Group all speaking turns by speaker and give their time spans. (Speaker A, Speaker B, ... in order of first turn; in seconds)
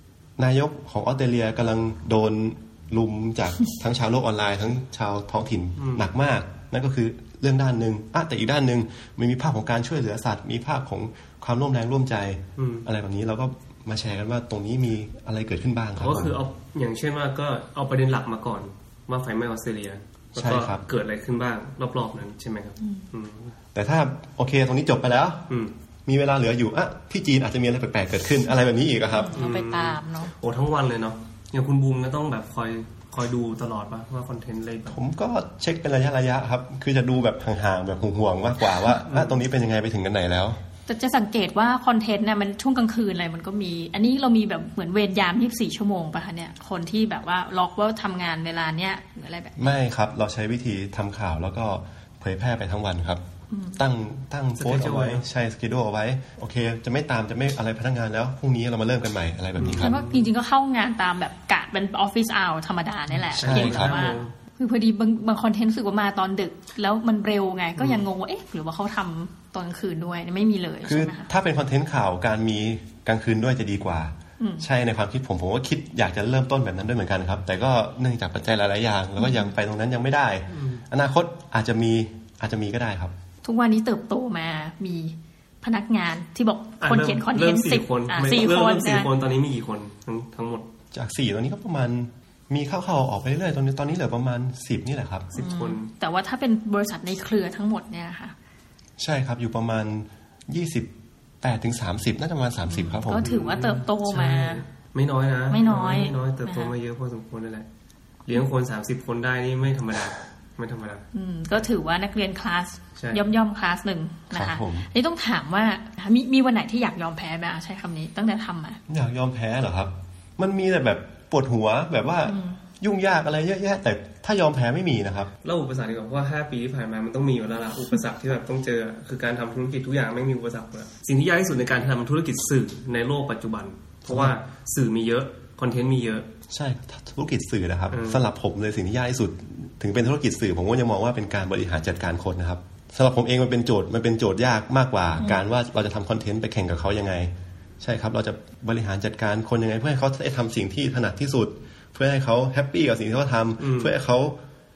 Speaker A: 0.4-16.4, 20.4-20.8, 23.7-25.5, 26.1-29.5, 34.9-40.6, 49.6-53.2, 53.8-60.0, 63.3-64.0, 70.9-83.1, 90.9-95.3, 99.0-100.9, 101.4-103.3, 114.3-114.9, 118.9-125.3, 136.5-154.4
Speaker B: 5.8-6.0, 12.6-12.9, 16.0-23.5, 29.3-35.0, 39.1-39.4, 54.6-55.2, 59.6-60.3, 63.4-64.3, 67.8-68.0, 80.5-80.8, 86.8-90.7, 95.3-95.9, 103.2-107.7, 108.3-111.0, 125.4-136.3, 137.9-138.2, 153.6-153.9
Speaker C: 29.1-30.3, 40.9-49.7, 53.5-53.8, 59.7-71.3, 74.4-74.7, 79.2-79.5, 83.4-89.1, 95.3-98.3, 102.7-104.6, 105.5-106.7, 111.1-118.8, 122.3-122.6